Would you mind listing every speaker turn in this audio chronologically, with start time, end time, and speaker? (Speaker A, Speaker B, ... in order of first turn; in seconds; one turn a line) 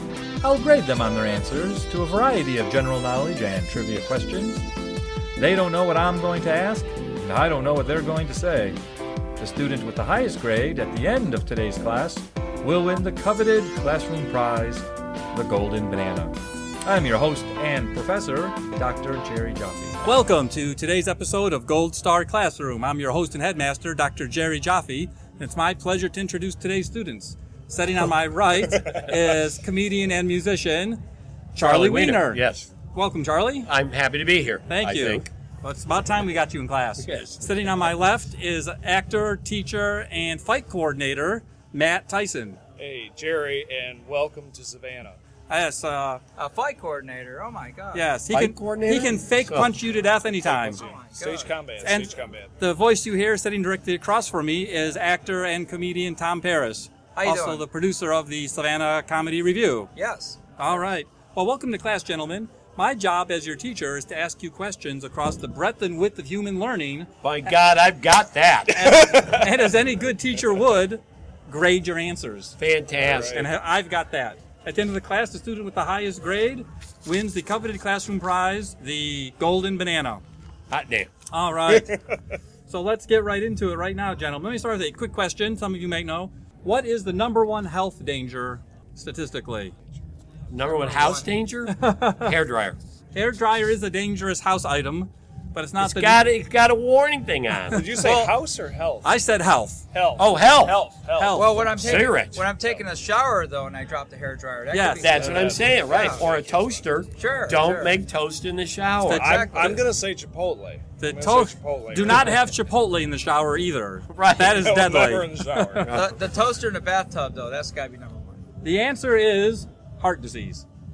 Speaker A: 0.4-4.6
Speaker A: 5.4-8.8
Speaker A: 9.4-20.0
Speaker B: 20.0-31.0
Speaker B: 31.5-32.4
Speaker C: 31.6-32.7
Speaker B: 32.9-33.7
Speaker C: 33.7-35.3
Speaker B: 34.7-42.6
Speaker C: 37.0-37.5
Speaker D: 42.8-45.2
Speaker B: 45.5-46.2
Speaker E: 46.4-48.1
Speaker B: 47.9-50.8
Speaker C: 48.3-49.7
Speaker D: 50.5-52.5
Speaker E: 50.6-51.5
Speaker B: 51.8-59.9
Speaker E: 57.1-57.7
Speaker E: 60.0-60.4
Speaker B: 60.6-67.1
Speaker C: 67.2-69.0
Speaker B: 68.7-72.6
Speaker C: 72.6-73.5
Speaker D: 73.0-73.5
Speaker B: 73.3-80.2
Speaker C: 80.7-81.1
Speaker B: 81.3-82.0
Speaker B: 82.7-89.7
Speaker C: 90.5-92.8
Speaker E: 90.6-91.3
Speaker B: 91.7-92.3
Speaker B: 93.1-96.3
Speaker C: 95.8-97.9
Speaker D: 97.7-99.1
Speaker E: 98.0-98.4
Speaker B: 99.0-99.8
Speaker D: 99.9-101.8
Speaker C: 100.2-100.8
Speaker B: 101.2-101.6
Speaker E: 101.3-106.2
Speaker C: 101.8-102.5
Speaker B: 104.7-105.1
Speaker C: 105.0-109.3
Speaker D: 105.0-106.8
Speaker E: 107.2-108.0
Speaker B: 109.0-109.4
Speaker D: 109.1-112.3
Speaker E: 109.2-109.9
Speaker B: 111.0-115.7
Speaker C: 114.1-114.7
Speaker D: 114.5-115.9
Speaker C: 115.8-116.1
Speaker E: 115.8-118.4
Speaker B: 118.6-120.7